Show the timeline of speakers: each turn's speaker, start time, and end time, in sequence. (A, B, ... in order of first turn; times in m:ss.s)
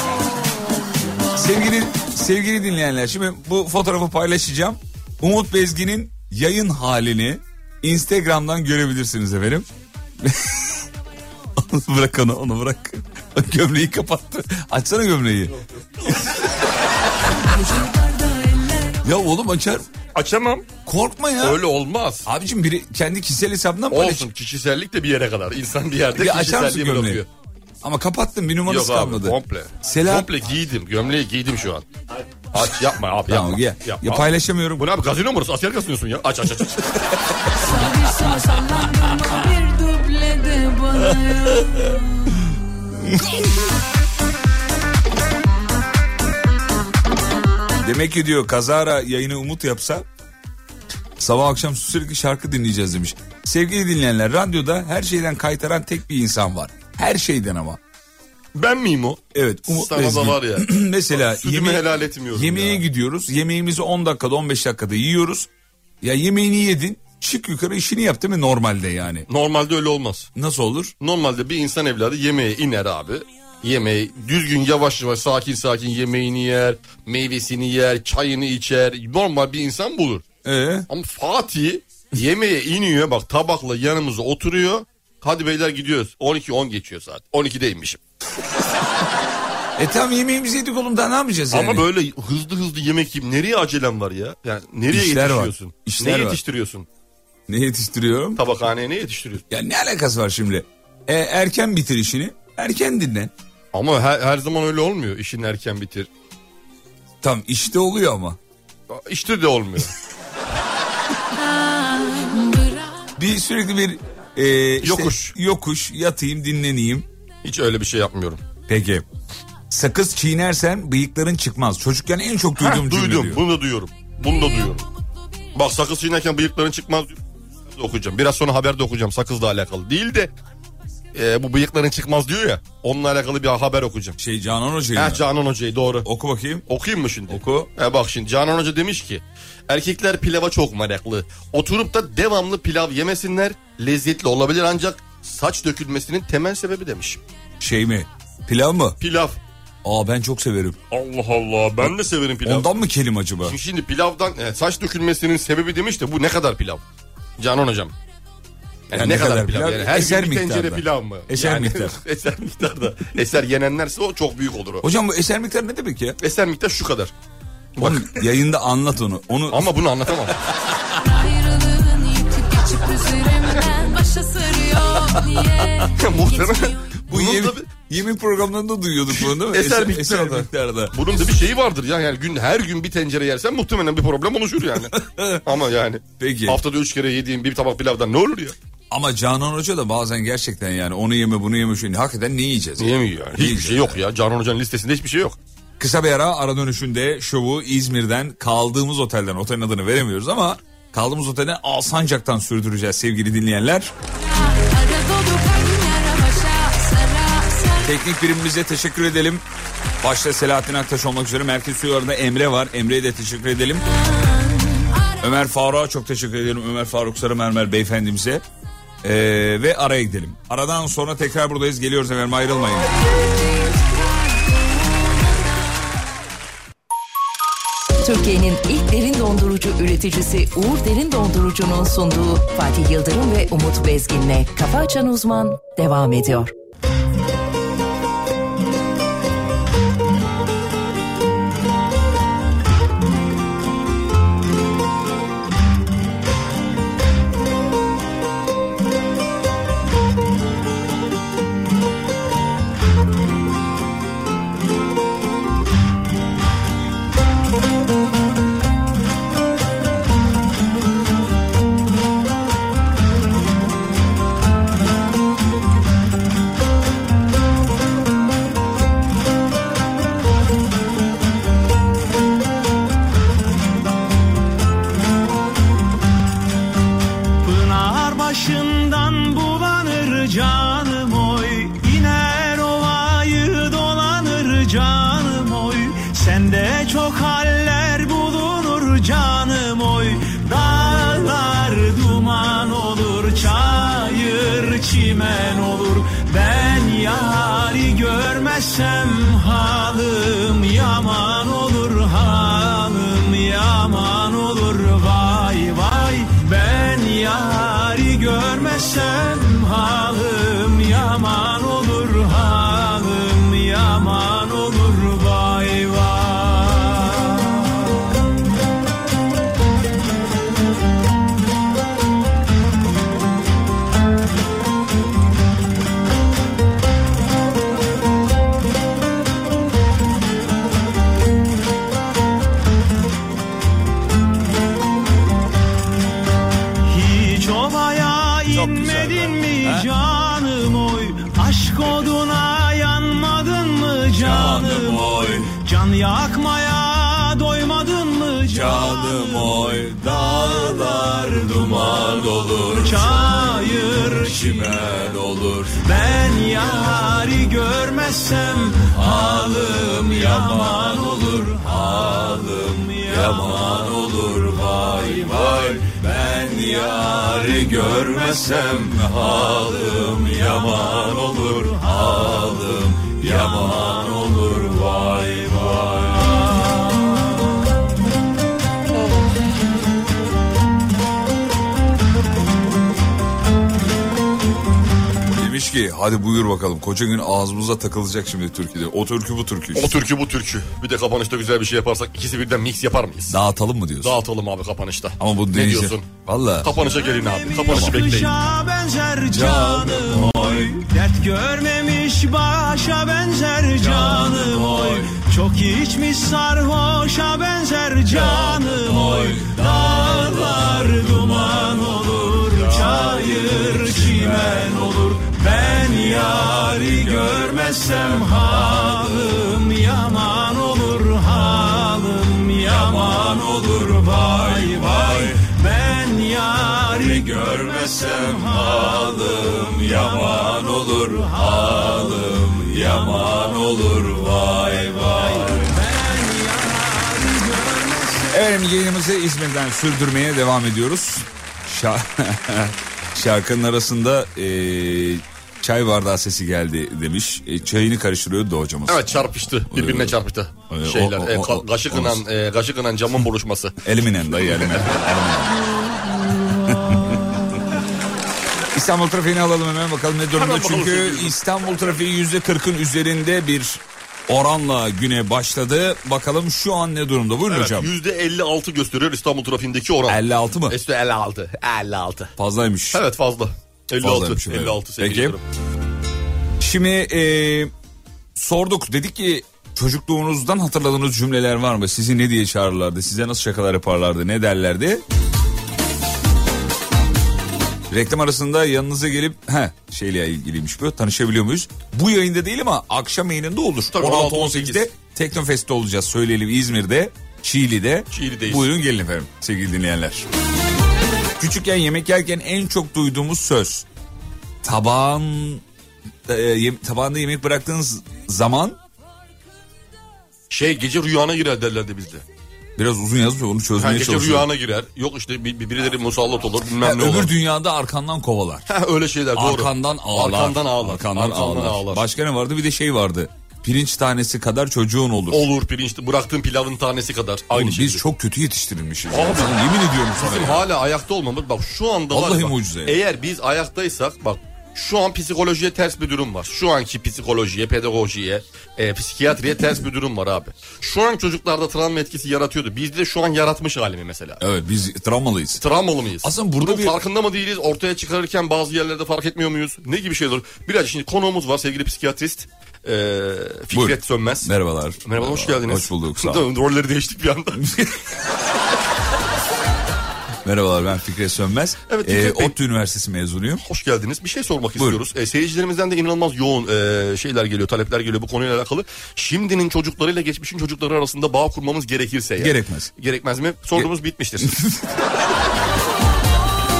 0:01.4-0:09.7 A
0:10.2-0:10.8 A
0:11.6-0:16.4 A
0:17.4-0:19.0 B
0:19.0-0:19.9 A
0:20.1-0:20.6 C
0:20.8-0:21.6 A
0:21.4-0:22.3 C
0:22.2-0:24.3 A
0:23.9-0:27.3 C
0:26.1-0:27.2 A
0:27.8-0:30.3 A
0:28.6-0:31.8 C
0:32.5-0:36.9 C
0:33.3-0:34.9 A
0:37.6-0:42.0 B
0:47.8-0:50.0 A
0:51.2-0:57.8 A
0:58.5-1:02.8 C
0:59.3-1:05.5 A
1:06.0-1:09.3 A
1:09.3-1:10.3 C
1:10.3-1:10.9 A
1:11.0-1:20.2 C
1:20.4-1:20.9 A
1:20.9-1:28.0 C
1:29.8-1:31.9 A
1:31.5-1:36.9 C
1:34.9-1:36.4 A
1:37.5-1:38.4 A
1:38.4-1:39.4 C
1:39.5-1:43.3 A
1:43.7-1:46.1 C
1:47.2-1:48.4 A
1:48.9-1:49.9 C
1:53.2-1:57.0 A
1:54.8-1:55.3 C
1:57.4-1:58.4 C
1:58.7-1:59.0 A
1:59.7-2:03.4 A
2:02.6-2:04.8 C
2:05.5-2:07.2 C
2:07.7-2:10.3 C
2:11.1-2:14.2 C
2:14.2-2:15.3 A
2:14.9-2:16.1 C
2:16.0-2:16.7 A
2:16.7-2:27.2 C
2:17.3-2:17.7 A
2:27.6-2:29.0 A
2:29.0-2:29.4 C
2:29.8-2:30.8 A
2:30.9-2:32.8 C
2:32.4-2:33.6 A
2:33.4-2:36.8 C
2:37.4-2:37.9 C
2:38.9-2:44.8 C
2:38.9-2:42.0 A
2:44.8-2:46.2 A
2:46.2-2:47.1 C
2:47.8-2:48.2 C
2:47.8-2:49.7 A
2:49.5-2:50.4 C
2:51.0-2:57.0 B
2:55.8-2:57.7 C
2:57.1-3:01.0 A
2:59.1-3:08.5 C
3:04.9-3:05.4 A
3:06.2-3:06.6 A
3:08.9-3:14.0 A
3:12.8-3:15.4 C
3:15.8-3:23.9 A
3:24.5-3:27.9 B
3:27.8-3:29.4 A
3:30.0-3:33.9 A
3:35.2-3:38.4 A
3:39.0-3:42.9 A
3:48.0-3:56.5 D
4:37.4-5:18.0 E
5:36.9-5:52.0 E
5:38.5-5:39.4 C
5:39.6-5:39.9 A
5:44.2-5:45.5 A
5:48.4-5:53.5 A
5:52.6-5:55.0 E
5:54.2-5:55.8 A
5:55.8-6:03.9 E
5:58.9-6:16.4 A
6:10.2-6:12.6 E
6:13.3-6:13.8 E
6:16.4-6:16.9 E
6:25.3-6:30.0 A
6:29.7-6:33.4 C
6:33.3-6:34.2 A
6:34.0-6:36.1 C
6:35.2-6:36.9 A
6:36.6-6:38.3 C
6:36.8-7:12.4 E
6:37.6-6:38.0 A
6:39.3-6:40.8 A
6:43.8-6:45.1 A
6:48.1-6:50.3 A
6:54.0-6:54.5 A
7:02.8-7:05.4 A
7:07.2-7:15.8 A
7:13.0-7:13.3 E
7:14.8-7:18.4 E
7:18.3-7:32.2 A
7:28.9-7:34.9 C
7:33.8-7:35.6 A
7:36.7-7:37.4 A
7:38.7-7:47.9 A
7:40.3-7:41.3 C
7:47.5-7:52.3 C
7:50.1-7:50.8 A
7:52.4-7:53.0 A
7:52.9-7:55.4 C
7:54.0-7:55.4 A
7:56.6-7:57.7 A
7:58.4-8:05.0 A
8:07.9-8:20.2 A
8:13.9-8:14.9 C
8:18.1-8:18.7 C
8:21.4-8:23.8 A
8:24.6-8:25.6 A
8:26.3-8:28.8 A
8:30.5-8:32.2 C
8:32.8-8:34.5 A
8:33.8-8:37.3 C
8:36.8-8:38.7 A
8:38.7-8:42.0 C
8:39.3-8:45.5 A
8:45.3-8:48.0 C
8:47.5-8:50.7 A
8:49.1-8:49.6 C
8:50.2-9:04.4 C
8:52.1-8:53.0 A
9:04.4-9:05.6 A
9:05.6-9:14.5 C
9:06.2-9:07.0 A
9:13.7-9:16.5 A
9:15.0-9:17.6 C
9:17.6-9:18.0 A
9:20.4-9:23.6 A
9:21.9-9:22.5 C
9:23.6-9:34.5 C
9:24.8-9:25.0 A
9:32.4-9:32.9 A
9:34.4-9:35.0 A